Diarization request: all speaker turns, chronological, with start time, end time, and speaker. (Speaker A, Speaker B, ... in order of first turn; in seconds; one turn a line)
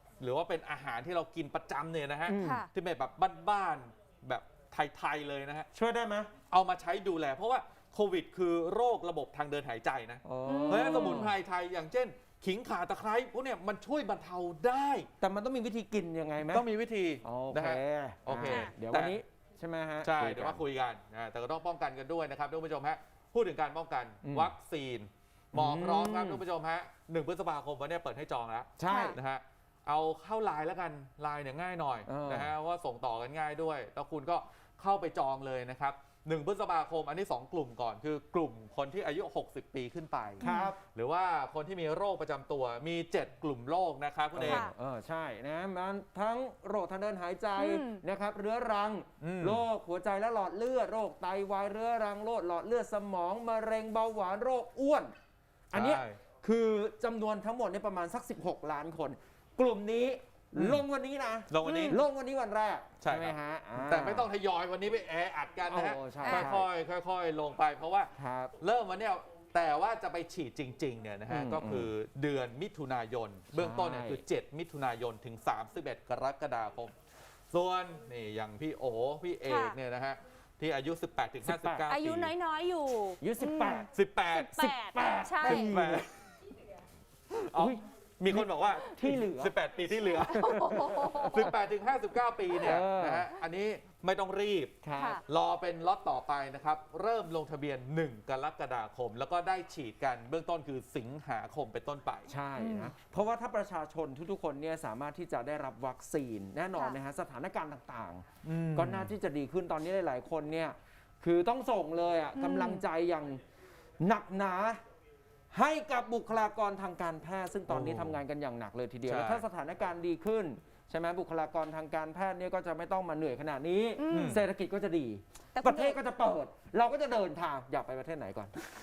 Speaker A: 0.2-5.7
Speaker B: 2.3-2.6
Speaker C: 2.4-2.7
Speaker B: 5.7-6.3
Speaker A: 6.5-15.1
Speaker B: 10.2-11.3
Speaker C: 10.4-11.3
Speaker B: 15.2-16.6
Speaker A: 16.5-19.1
Speaker B: 17.2-20.6
Speaker C: 18.4-18.7
Speaker A: 20.0-44.7
Speaker B: 24.2-24.5
Speaker B: 25.5-26.4
Speaker B: 28.8-29.2
Speaker C: 28.9-29.1
Speaker B: 32.0-32.5
Speaker C: 40.4-40.7
Speaker B: 40.4-40.8
Speaker B: 44.3-55.1
Speaker C: 44.4-44.7
Speaker C: 47.5-48.0
Speaker A: 49.2-49.6
Speaker A: 55.7-56.2
Speaker B: 55.7-64.3
Speaker A: 60.5-60.8
Speaker A: 61.5-62.0
Speaker C: 61.6-62.0
Speaker A: 63.0-76.9
Speaker B: 65.7-66.7
Speaker C: 66.2-66.5
Speaker B: 68.1-68.5
Speaker B: 71.3-71.9
Speaker B: 73.5-74.2
Speaker A: 77.5-82.3
Speaker C: 79.4-79.8
Speaker B: 81.4-81.9
Speaker C: 81.9-85.7
Speaker B: 83.2-83.9
Speaker A: 83.9-84.5
Speaker B: 84.5-86.1
Speaker A: 85.5-86.1
Speaker A: 87.3-90.4
Speaker B: 87.5-89.5
Speaker B: 90.2-91.4
Speaker C: 90.2-91.5
Speaker A: 91.0-102.3
Speaker B: 92.5-93.3
Speaker B: 94.8-95.2
Speaker C: 95.0-95.2
Speaker B: 102.3-113.4
Speaker C: 102.6-102.9
Speaker A: 108.4-109.1
Speaker C: 112.3-112.8
Speaker B: 114.0-114.8
Speaker B: 115.5-128.6
Speaker A: 117.7-118.2
Speaker A: 119.0-119.4
Speaker C: 124.0-124.4
Speaker A: 124.1-124.4
Speaker C: 125.5-126.0